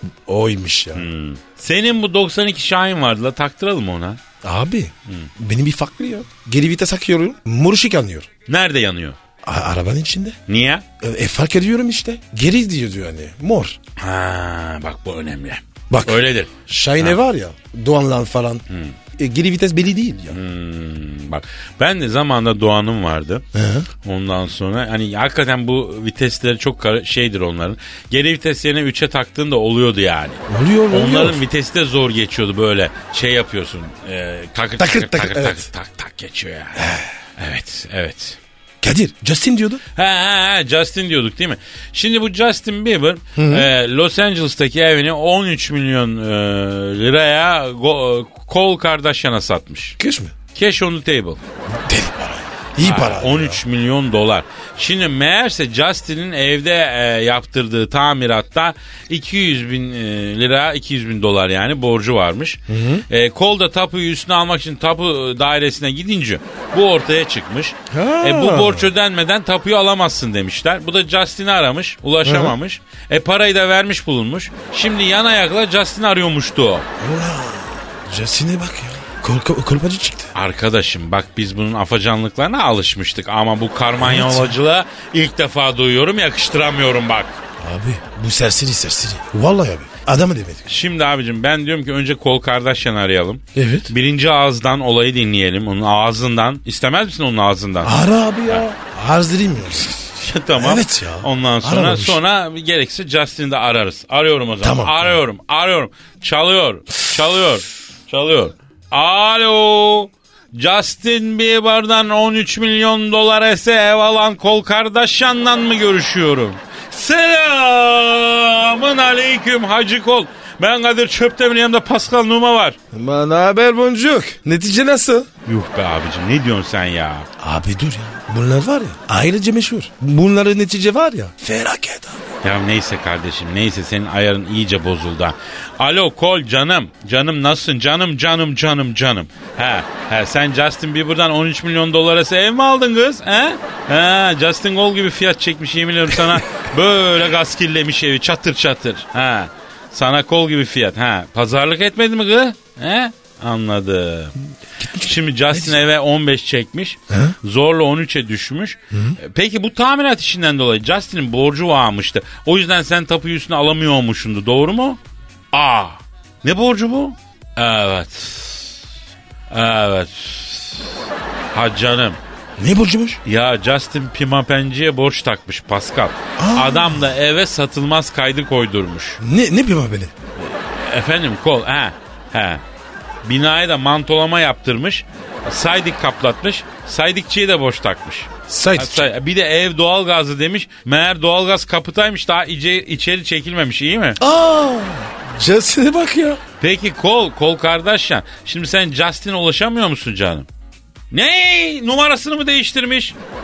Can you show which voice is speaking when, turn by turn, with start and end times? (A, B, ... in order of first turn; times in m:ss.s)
0:00.3-0:01.1 A
0:00.9-0:04.2 B
0:04.4-0:08.3 A
0:08.5-0:09.2 B
0:09.4-0:10.4 A
0:10.5-0:10.8 B
0:11.0-0:13.8 A
0:14.0-0:17.2 B
0:15.9-0:18.6 A
0:18.7-0:19.0 B
0:19.2-0:20.4 A
0:20.3-0:23.4 B
0:23.5-0:23.9 A
0:24.0-0:38.4 B
0:30.5-0:31.4 A
0:34.8-0:35.7 A
0:36.8-0:37.1 A
0:38.8-0:39.8 A
0:40.0-0:50.0 B
0:43.4-0:43.7 A
0:50.0-0:50.3 A
0:50.5-0:51.4 B
0:51.7-0:53.6 A
0:52.8-1:16.9 B
1:02.7-1:03.0 A
1:07.9-1:08.9 A
1:12.2-1:12.6 A
1:17.0-1:20.3 A
1:20.3-1:27.4 B
1:24.0-1:24.5 A
1:27.6-1:30.6 A
1:30.6-1:38.0 B
1:33.5-1:33.9 A
1:37.8-1:42.2 A
1:40.1-2:02.8 B
1:44.6-1:45.2 A
2:02.9-2:05.3 A
2:05.4-2:07.3 B
2:07.4-2:12.2 A
2:12.4-2:34.3 B
2:34.8-2:35.8 A
2:34.9-2:45.0 B
2:37.1-2:37.3 A
2:38.9-2:39.2 A
2:45.5-2:48.8 B
2:49.5-2:50.9 B
2:51.5-2:52.2 B
2:52.6-2:53.2 A
2:53.2-2:59.2 B
2:56.4-2:57.0 A
2:59.2-3:00.1 A
3:00.4-3:02.6 B
3:03.2-3:14.2 B
3:08.5-3:09.1 A
3:14.2-3:16.4 A
3:16.6-3:20.5 B
3:21.1-3:23.2 B